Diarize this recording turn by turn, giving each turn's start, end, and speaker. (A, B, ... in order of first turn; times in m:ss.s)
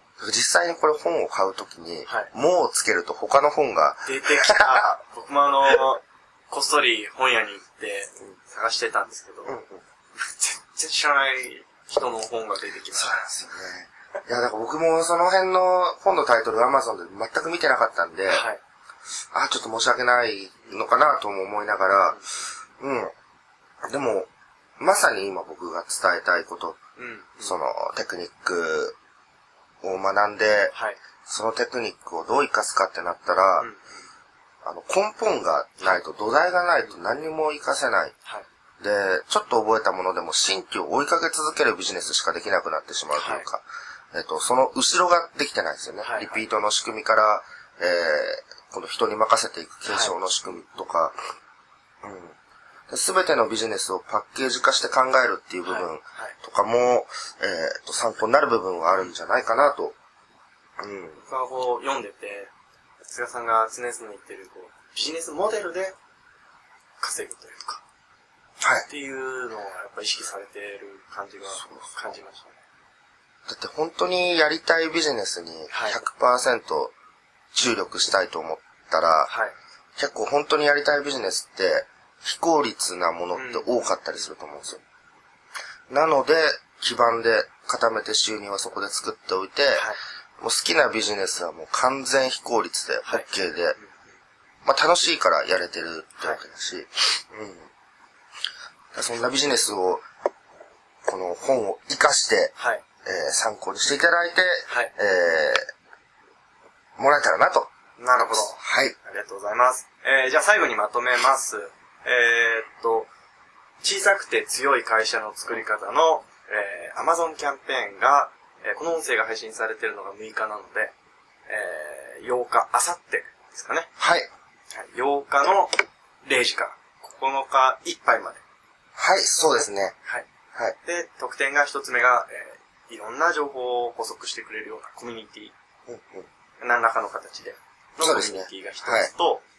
0:00.2-0:05.0 A
0:04.1-0:09.6 B
0:09.5-0:09.8 A
0:10.2-0:13.2 B
0:12.9-0:18.4 A
0:18.3-0:18.6 B
0:19.3-0:22.2 A
0:22.8-0:23.1 A
0:23.9-0:26.8 A
0:27.0-0:27.6 B
0:27.4-0:29.0 A
0:29.8-0:30.7 A
0:30.7-0:31.0 B
0:31.3-0:33.7 A
0:33.6-0:33.9 B
0:34.6-0:38.1 A
0:38.8-0:51.2 A
0:43.1-0:43.5 B
0:46.0-0:46.4 B
0:49.9-0:50.6 B
0:52.0-0:52.4 A
0:52.9-1:00.0 A
0:55.6-0:56.4 B
1:00.8-1:01.2 A
1:01.2-1:02.5 B
1:03.1-1:06.0 B
1:07.0-1:07.8 B
1:08.6-1:08.9 A
1:08.9-1:12.6 B
1:11.6-1:11.9 A
1:13.5-1:16.9 A
1:15.7-1:16.0 B
1:17.5-1:19.3 A
1:19.3-1:19.5 B
1:20.0-1:24.8 A
1:23.3-1:24.3 B
1:25.9-1:29.9 A
1:30.4-1:33.8 A
1:33.0-1:33.9 B
1:34.6-1:37.7 A
1:38.9-1:40.0 A
1:41.1-1:42.5 A
1:42.6-1:42.8 B
1:43.0-1:45.7 A
1:47.0-1:49.0 A
1:48.0-1:53.1 B
1:53.8-2:00.9 B
2:01.5-2:03.9 B
2:04.0-2:04.3 A
2:04.7-2:08.4 B
2:09.0-2:10.0 A
2:10.8-2:15.5 B
2:15.9-2:16.3 A
2:16.6-2:19.4 B
2:18.0-2:19.1 A